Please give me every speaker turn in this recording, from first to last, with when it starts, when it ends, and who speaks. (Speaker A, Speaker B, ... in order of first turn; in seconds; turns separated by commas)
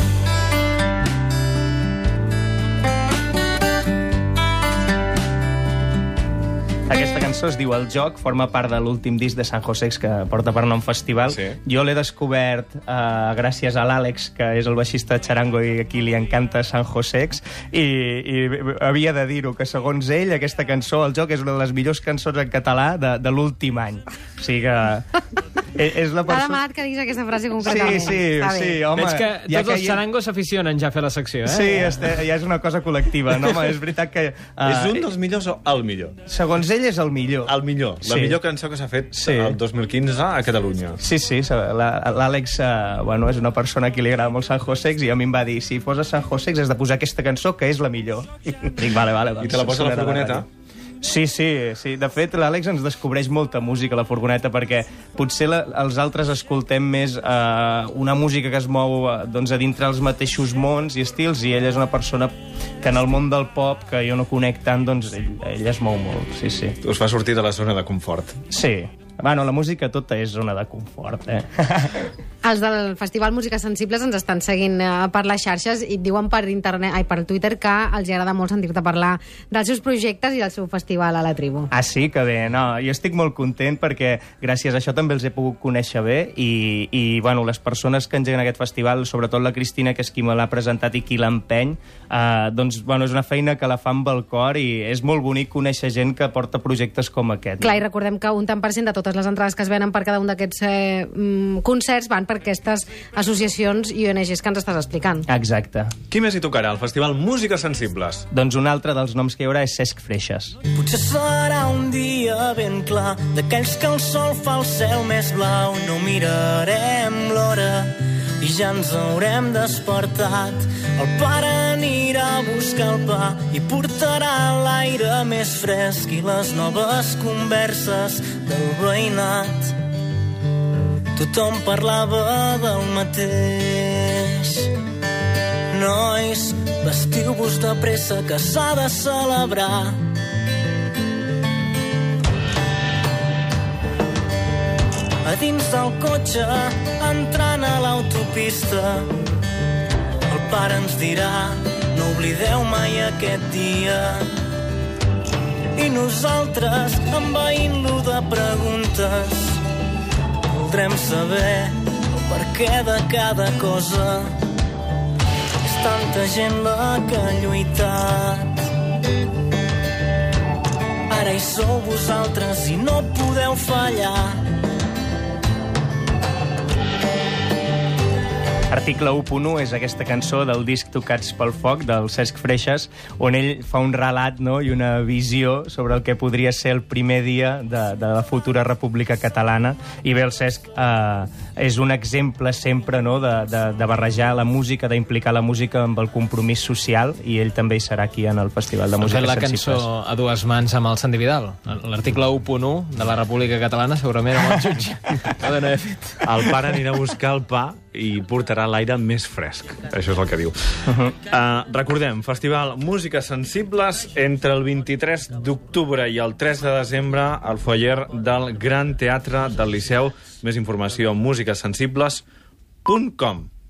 Speaker A: 6.9-25.2, Speaker B: 11.3-11.6, Speaker A: 25.7-26.6, Speaker C: 26.3-28.8, Speaker A: 27.6-30.0, Speaker D: 28.9-32.1, Speaker A: 31.4-35.0, Speaker B: 34.6-36.2, Speaker A: 36.3-38.4, Speaker B: 37.5-41.0, Speaker A: 39.1-39.6, Speaker A: 41.0-50.4, Speaker B: 49.4-50.4, Speaker A: 51.0-66.8, Speaker B: 66.8-68.4, Speaker A: 68.5-72.1, Speaker C: 72.4-81.7, Speaker A: 81.7-97.8, Speaker C: 97.6-105.2, Speaker A: 105.3-105.9, Speaker B: 106.1-108.2, Speaker A: 108.3-110.5, Speaker E: 110.7-129.8, Speaker E: 131.2-134.7, Speaker E: 135.7-140.1, Speaker E: 145.2-149.1, Speaker E: 150.3-154.3, Speaker E: 155.7-159.6, Speaker E: 160.4-164.4, Speaker E: 165.6-168.7, Speaker E: 171.1-174.4, Speaker A: 178.7-199.9, Speaker D: 199.0-206.6, Speaker B: 206.2-210.6, Speaker A: 210.9-211.1, Speaker B: 211.2-222.2, Speaker B: 222.8-223.5